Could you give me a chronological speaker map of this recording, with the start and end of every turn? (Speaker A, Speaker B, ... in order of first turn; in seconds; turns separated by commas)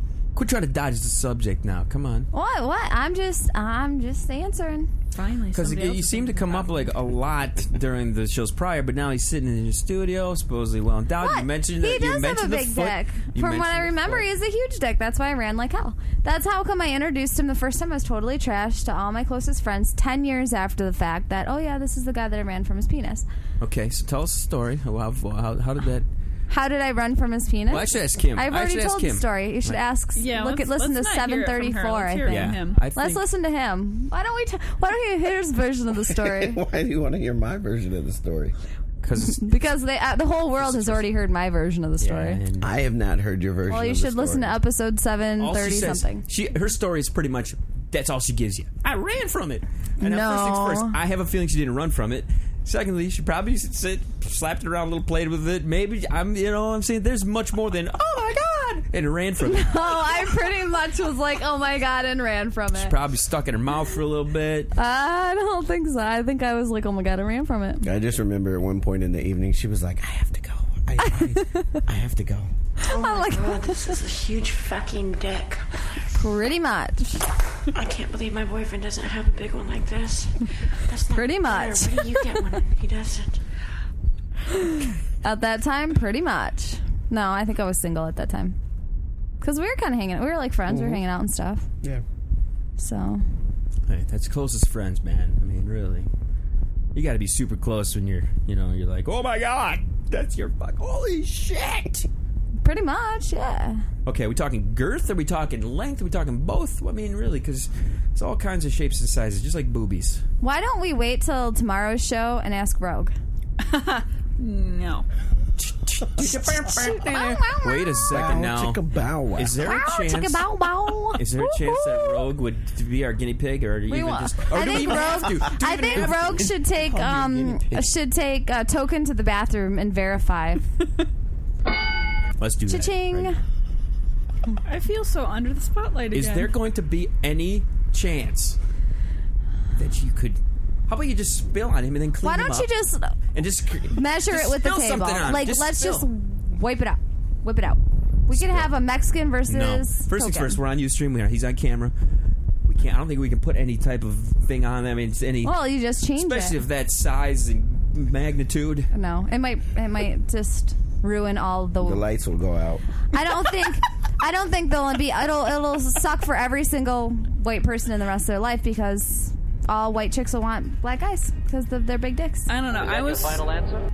Speaker A: 0.3-2.3, Speaker B: 2.3-4.9, Speaker C: 5.1-6.9, Speaker A: 5.5-14.3, Speaker B: 11.2-23.3, Speaker A: 23.6-26.1, Speaker B: 26.5-36.6, Speaker A: 27.7-29.8, Speaker C: 30.1-32.8, Speaker A: 32.2-33.2, Speaker D: 36.1-38.5, Speaker A: 39.0-39.5, Speaker B: 39.2-42.4, Speaker A: 40.6-41.1, Speaker A: 42.0-42.7, Speaker D: 42.6-44.6, Speaker B: 43.7-46.2, Speaker A: 45.4-60.3, Speaker B: 50.0-51.0, Speaker B: 59.5-63.0, Speaker A: 62.7-64.7, Speaker B: 64.7-67.8, Speaker D: 67.8-72.5, Speaker B: 71.0-71.8, Speaker B: 72.8-74.0, Speaker E: 72.8-75.8, Speaker B: 76.1-77.2, Speaker E: 77.7-83.4, Speaker B: 81.1-82.4, Speaker B: 85.2-88.6, Speaker B: 89.4-91.7, Speaker D: 90.7-91.0, Speaker B: 92.8-93.2, Speaker A: 93.9-96.1, Speaker A: 96.9-102.1, Speaker B: 102.6-103.8, Speaker A: 104.1-110.2, Speaker B: 110.4-113.1, Speaker C: 113.6-115.1, Speaker A: 115.6-118.8, Speaker C: 116.2-117.4, Speaker B: 116.8-118.1, Speaker D: 118.1-119.6, Speaker A: 119.3-120.5, Speaker B: 119.6-121.2, Speaker A: 121.2-126.5, Speaker C: 121.4-122.2, Speaker B: 123.9-130.7, Speaker D: 126.1-127.9, Speaker A: 132.4-133.3, Speaker B: 132.7-133.4, Speaker C: 134.7-136.5, Speaker A: 136.1-138.6, Speaker A: 139.8-142.7, Speaker B: 142.2-143.2, Speaker A: 143.3-146.1, Speaker B: 143.9-150.6, Speaker A: 148.3-148.8, Speaker A: 149.4-151.9, Speaker A: 152.6-155.6, Speaker B: 155.4-156.6, Speaker A: 156.2-158.9, Speaker B: 158.9-162.1, Speaker D: 161.8-162.9, Speaker B: 163.1-172.5, Speaker C: 172.5-173.7